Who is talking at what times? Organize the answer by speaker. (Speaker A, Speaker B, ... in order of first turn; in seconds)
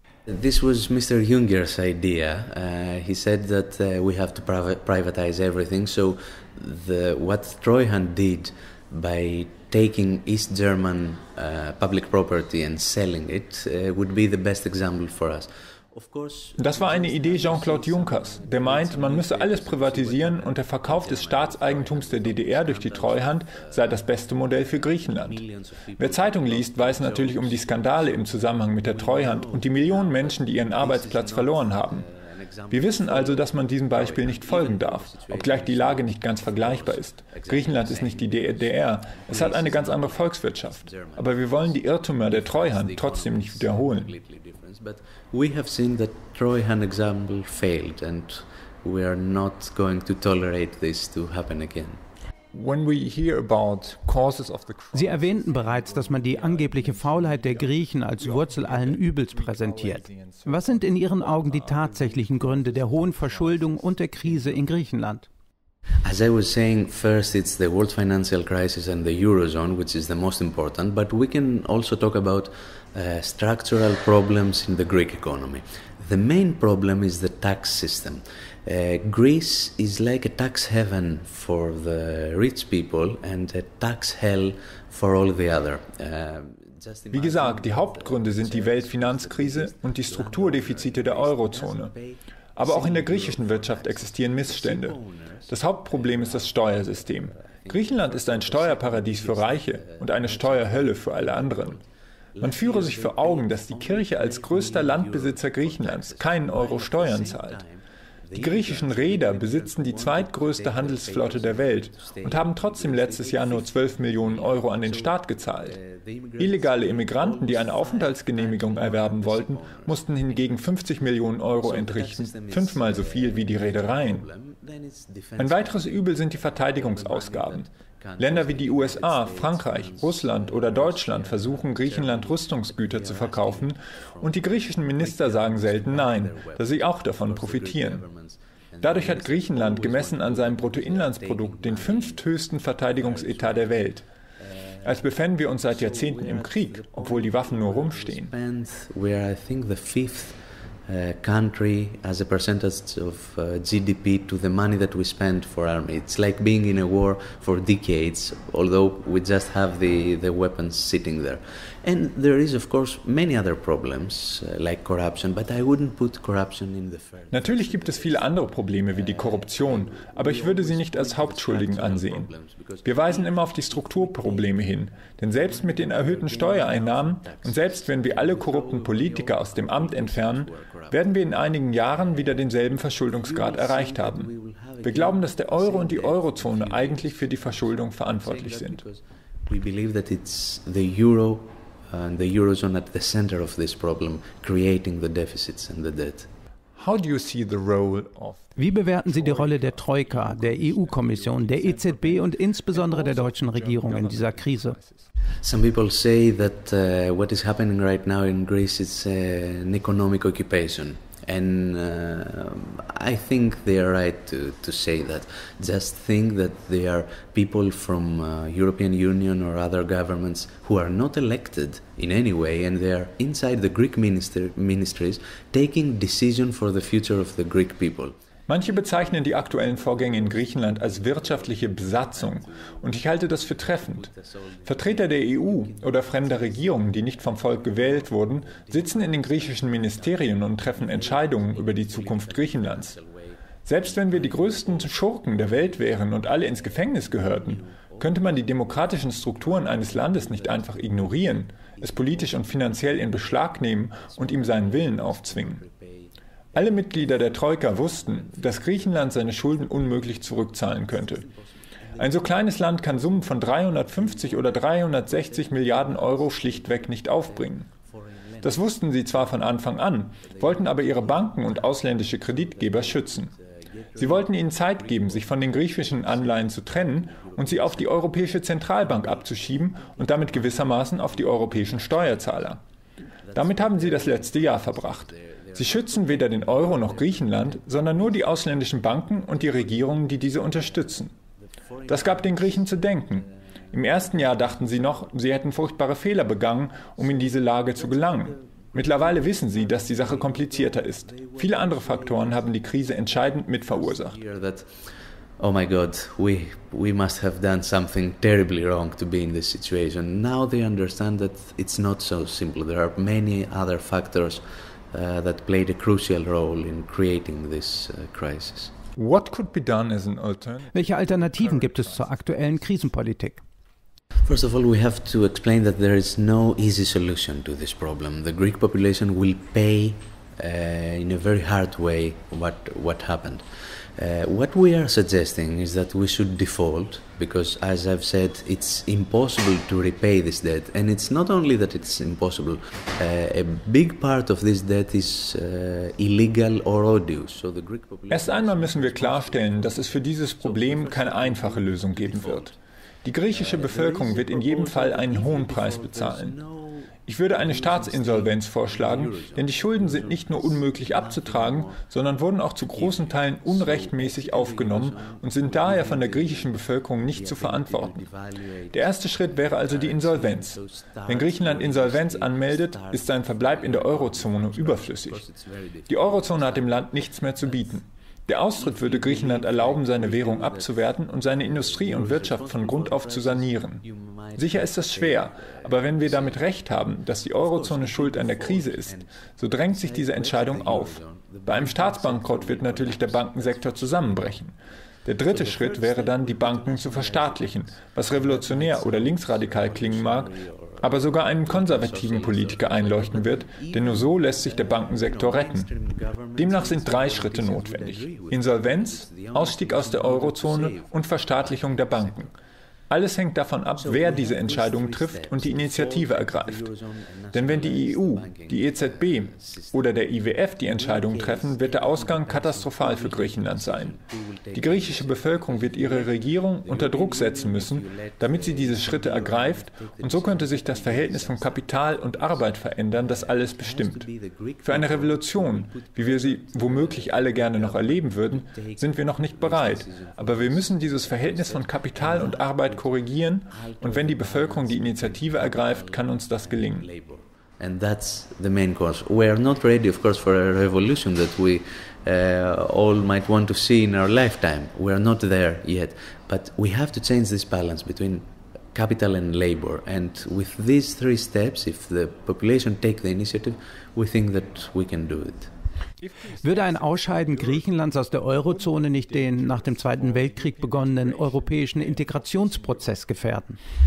Speaker A: 0.3-24.0, 24.8-52.0, 66.0-120.7, 121.6-143.9, 144.4-145.0, 145.6-174.7, 175.3-181.1, 183.1-196.3, 205.4-228.2, 228.9-245.8, 246.5-282.5, 283.2-295.2, 297.0-302.6, 303.7-304.7, 305.4-318.7, 324.2-333.4, 333.9-352.6, 353.3-361.8, 362.6-377.8, 378.5-386.7, 387.3-394.4, 395.3-412.3, 413.7-419.9, 420.6-442.9, 443.5-465.5
Speaker B: 16.6-25.4, 26.0-32.0, 32.7-44.1, 52.5-64.9, 87.1-91.9, 92.5-95.0, 95.5-101.8, 102.4-107.6, 108.3-115.8, 116.4-124.3, 125.4-138.0, 138.8-144.1, 144.8-148.3, 167.3-172.3, 172.8-184.3, 184.8-188.8, 196.8-205.1, 228.5-234.1, 234.7-242.9, 243.6-255.6, 256.6-261.2, 262.0-267.7, 268.4-273.3, 274.0-282.6, 283.4-291.1, 291.9-304.2, 318.9-322.6, 348.1-352.5, 353.0-356.4, 357.1-368.1, 368.7-375.2, 375.9-383.8, 384.4-394.5, 395.1-405.7, 406.4-412.3, 412.9-416.6, 417.3-424.0, 424.5-434.1, 434.6-446.9, 466.0-473.0
Speaker C: 54.9-65.2, 198.6-204.8, 320.7-323.4, 466.4-473.6